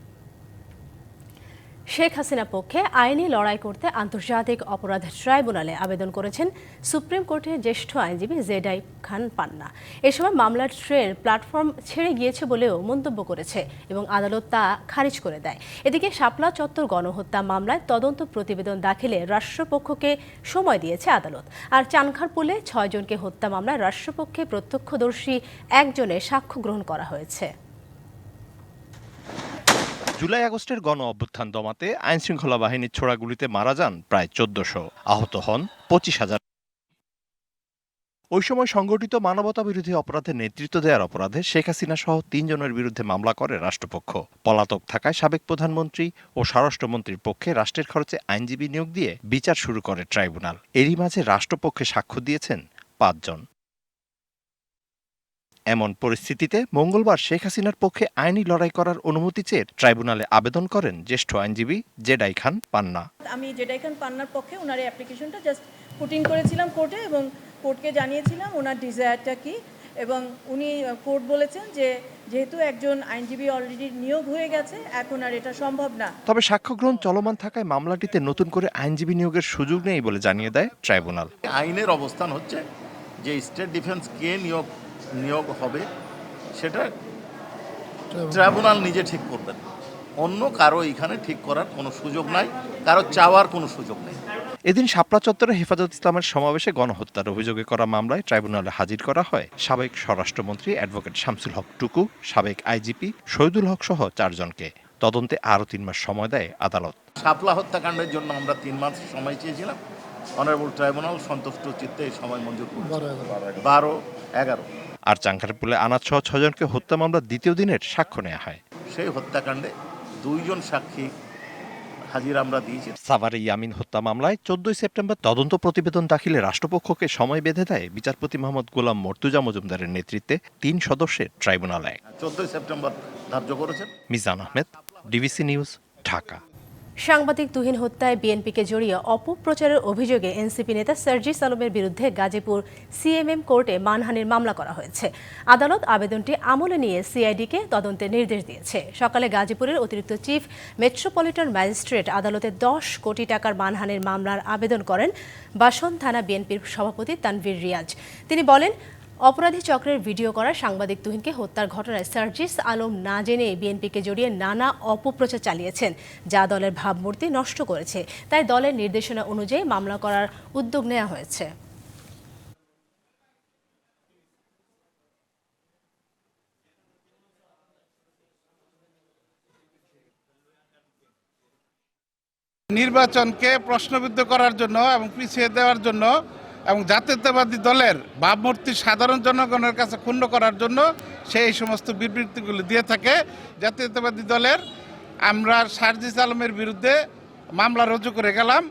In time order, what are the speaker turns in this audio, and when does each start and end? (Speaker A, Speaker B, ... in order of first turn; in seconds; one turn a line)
Speaker A: 1.9-27.5
Speaker B: 30.2-36.4
Speaker B: 38.4-53.4
Speaker B: 55.7-63.1
Speaker C: 63.3-76.1
Speaker B: 76.3-81.3
Speaker D: 81.5-82.6
Speaker D: 83.2-84.7
Speaker D: 85.2-85.8
Speaker D: 86.6-86.9
Speaker D: 88.3-89.6
Speaker D: 90.2-94.2
Speaker B: 94.7-107.0
Speaker D: 107.2-109.8
Speaker D: 110.4-114.7
Speaker B: 115.1-118.6
Speaker D: 118.9-119.7
Speaker D: 120.2-121.1
Speaker D: 122.1-122.9
Speaker B: 123.0-132.0
Speaker D: 132.2-133.9
Speaker B: 134.1-136.4
Speaker A: 137.1-158.7
Speaker A: 159.3-171.5
Speaker E: 182.7-186.1
Speaker E: 186.7-190.8
Speaker E: 191.3-193.1
Speaker E: 193.7-194.6
Speaker E: 195.3-196.9
Speaker E: 197.6-198.6